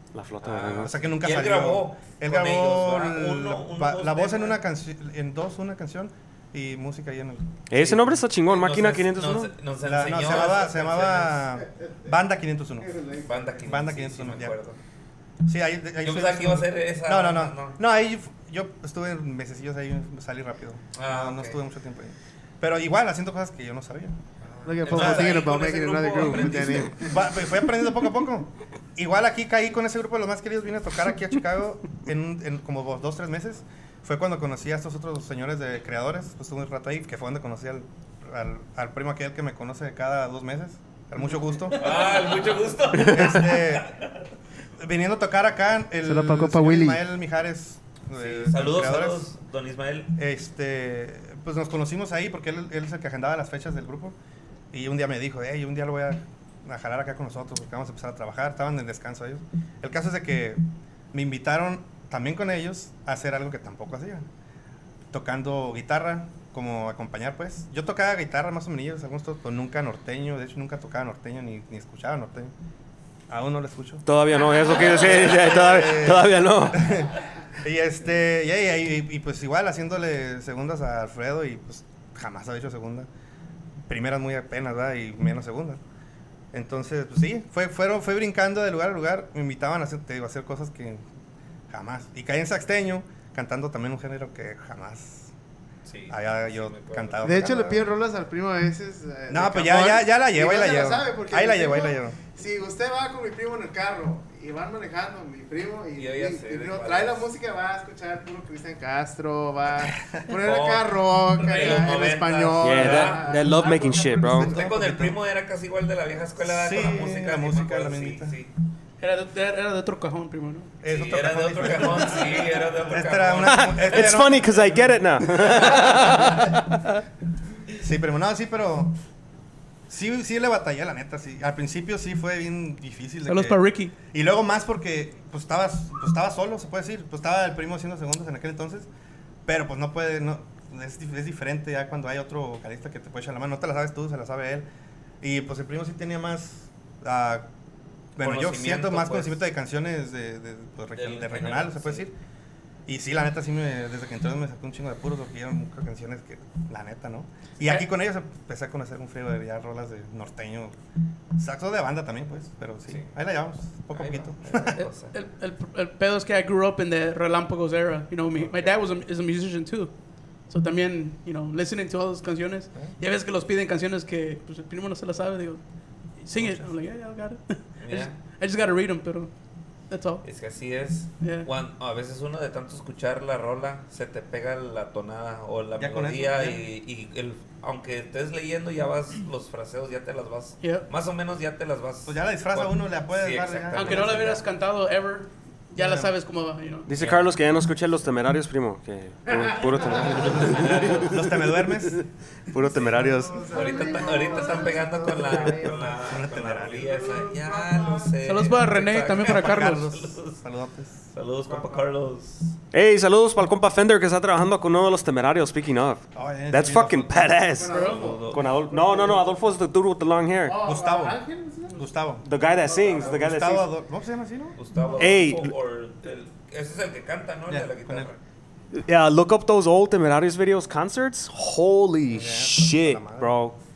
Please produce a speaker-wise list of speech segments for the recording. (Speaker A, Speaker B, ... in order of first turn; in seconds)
Speaker A: 0.1-1.0, 7.7-9.5, 74.0-77.0, 112.6-114.5, 123.4-126.9, 196.9-203.7, 212.7-220.6, 222.2-223.7, 224.9-225.5, 228.7-233.6
Speaker B: 0.4-4.6, 8.5-11.4, 13.2-14.8, 16.0-17.8, 20.9-21.6, 24.4-27.1, 41.7-44.1, 48.1-50.1, 95.8-97.2, 105.9-107.3, 110.4-113.3, 114.4-118.5, 120.8-124.0, 148.2-149.4, 150.9-152.1, 163.9-165.2, 168.4-168.7, 177.8-178.2, 180.2-194.4, 196.9-197.3, 199.9-201.2, 203.5-210.4, 211.1-212.6, 217.7-218.4, 224.6-228.2
Speaker C: 0.8-8.1, 9.8-12.9, 13.6-14.6, 15.4-24.2, 24.8-25.5, 26.3-42.2, 42.9-43.9, 44.8-49.2, 50.1-54.1, 54.7-60.6, 61.1-64.2, 65.1-72.5, 73.3-74.1, 74.7-83.1, 83.9-85.8, 86.5-91.0, 91.7-95.3, 96.1-97.9, 99.3-102.2, 114.4-115.2, 116.4-118.4, 120.8-125.8, 127.8-128.9, 129.9-138.9, 139.4-144.7, 145.2-147.5, 148.2-152.1, 152.9-160.8, 161.4-164.8, 176.3-176.7, 185.8-186.7, 192.1-194.4, 195.8-196.1, 200.2-202.0, 202.7-203.1, 205.5-207.0, 209.0-211.1, 216.1-217.4, 220.6-221.2, 221.8-222.2, 222.9-224.6, 227.5-228.1, 232.1-233.4
Speaker D: 12.8-13.6, 24.6-27.3, 46.0-47.0, 97.2-114.7, 199.3-200.5, 202.7-206.1, 206.8-208.2, 217.5-219.3, 220.4-221.8, 222.6-223.2, 224.8-225.1
Speaker E: 119.0-120.7, 133.3-133.9, 164.8-169.9, 170.5-175.6, 176.2-179.3, 179.9-180.2, 181.2-181.5, 190.6-190.9, 193.7-196.9, 208.2-209.9, 217.7-218.1